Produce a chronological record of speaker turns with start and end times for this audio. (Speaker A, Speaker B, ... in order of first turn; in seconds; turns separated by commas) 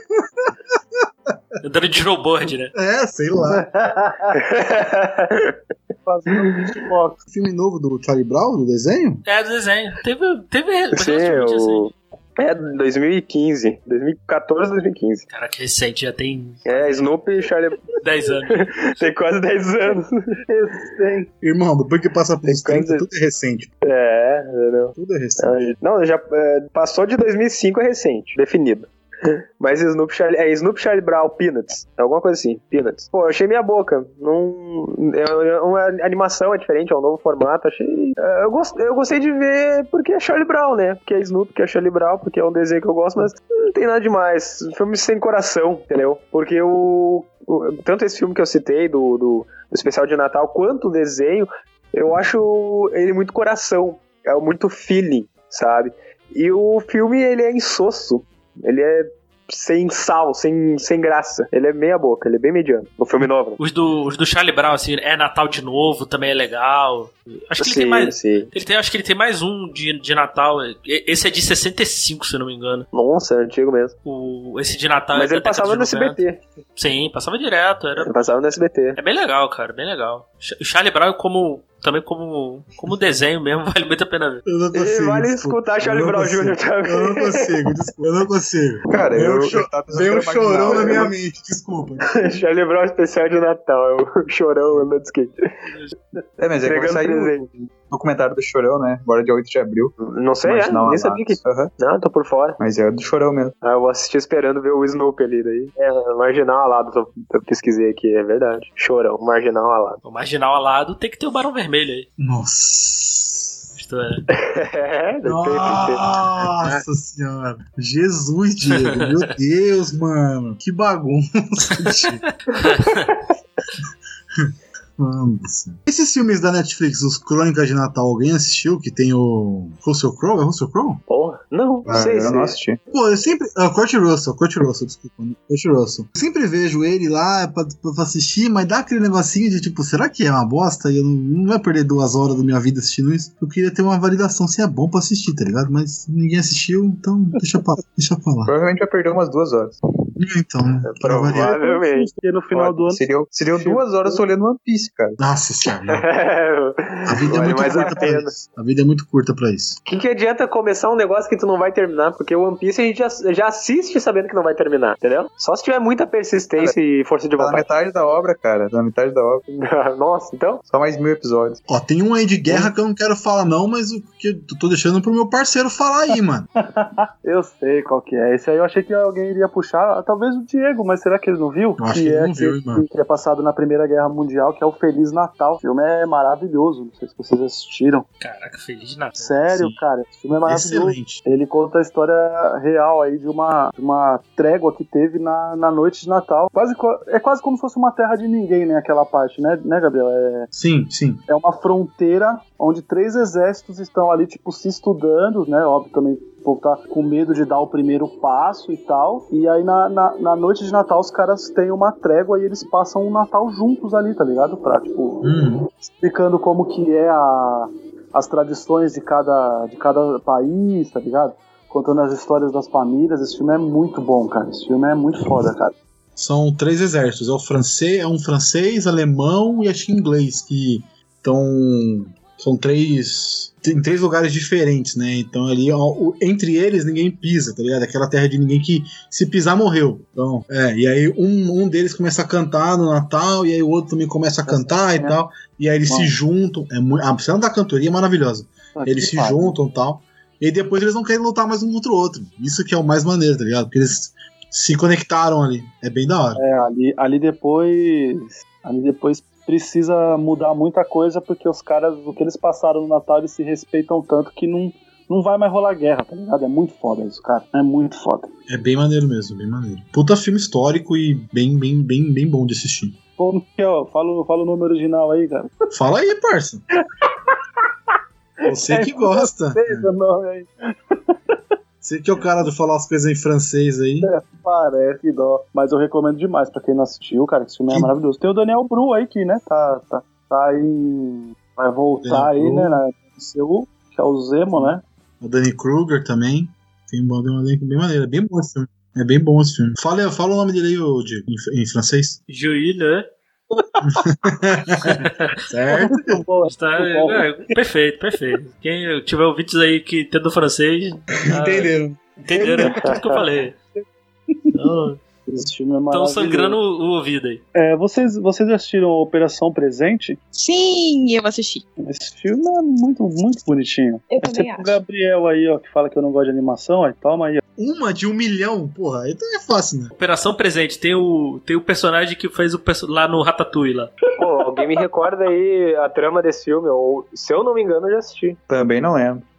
Speaker A: 0.7-1.3, Speaker B: 1.6-2.7, Speaker A: 2.7-3.6, Speaker C: 3.5-4.4, Speaker D: 4.3-5.6, Speaker C: 6.0-7.2, Speaker A: 7.3-9.2, Speaker B: 9.3-11.9, Speaker D: 10.9-15.3, Speaker B: 15.3-17.1, Speaker D: 16.7-17.9, Speaker B: 18.0-18.9, Speaker D: 18.6-20.2, Speaker C: 20.5-21.3, Speaker A: 21.4-23.7, Speaker D: 22.4-23.1, Speaker D: 23.8-63.6, Speaker A: 25.0-25.6, Speaker B: 63.6-72.9, Speaker D: 67.6-68.5, Speaker D: 72.9-74.0, Speaker B: 74.0-76.2, Speaker D: 75.1-76.4, Speaker B: 76.8-78.1, Speaker D: 78.0-79.0, Speaker B: 79.0-84.5, Speaker A: 84.5-92.2, Speaker D: 84.7-87.5, Speaker E: 88.9-91.1, Speaker D: 90.7-91.1, Speaker D: 92.1-95.4, Speaker E: 96.4-101.7, Speaker D: 96.6-97.5, Speaker D: 100.0-102.6, Speaker E: 102.6-103.5, Speaker D: 103.6-110.0, Speaker B: 110.0-112.1, Speaker A: 112.2-113.6, Speaker B: 113.8-114.3, Speaker D: 114.4-116.0, Speaker A: 115.2-122.2, Speaker B: 118.7-119.2, Speaker B: 122.5-123.1, Speaker A: 124.4-131.0, Speaker D: 131.1-132.6, Speaker E: 131.9-132.8, Speaker A: 132.9-148.5, Speaker E: 148.4-149.8, Speaker A: 150.2-151.5, Speaker D: 150.8-152.1, Speaker C: 151.3-154.2, Speaker E: 152.5-155.2, Speaker A: 155.2-156.1, Speaker D: 155.9-158.3, Speaker A: 157.1-159.8, Speaker E: 157.3-158.1, Speaker D: 159.9-167.7, Speaker E: 167.4-169.4, Speaker D: 169.5-170.6, Speaker E: 170.7-171.6, Speaker A: 171.7-176.5, Speaker C: 176.6-188.1, Speaker A: 181.8-182.9, Speaker B: 188.2-189.4, Speaker C: 189.2-200.5, Speaker A: 190.4-191.2, Speaker A: 200.5-201.2, Speaker C: 201.3-225.8, Speaker A: 226.2-256.4, Speaker C: 244.5-245.2, Speaker C: 245.9-246.1, Speaker C: 248.8-249.6, Speaker C: 256.4-268.3, Speaker A: 268.5-273.0, Speaker C: 273.2-275.5, Speaker A: 275.7-276.6, Speaker C: 278.4-281.1, Speaker A: 278.5-279.9, Speaker A: 281.8-284.1, Speaker C: 284.0-294.8, Speaker A: 292.0-292.8, Speaker A: 294.6-302.2, Speaker B: 302.3-303.1, Speaker A: 303.9-306.2, Speaker B: 305.0-305.3, Speaker C: 305.7-307.3, Speaker B: 306.4-311.7, Speaker A: 311.3-312.8, Speaker B: 312.2-313.6, Speaker B: 314.6-315.0, Speaker C: 315.3-316.6, Speaker B: 315.9-317.4, Speaker C: 317.6-320.2, Speaker F: 320.4-321.6, Speaker C: 321.8-327.4, Speaker F: 324.1-324.8, Speaker A: 327.6-329.9, Speaker B: 329.9-333.9, Speaker D: 334.2-338.4, Speaker E: 338.5-339.2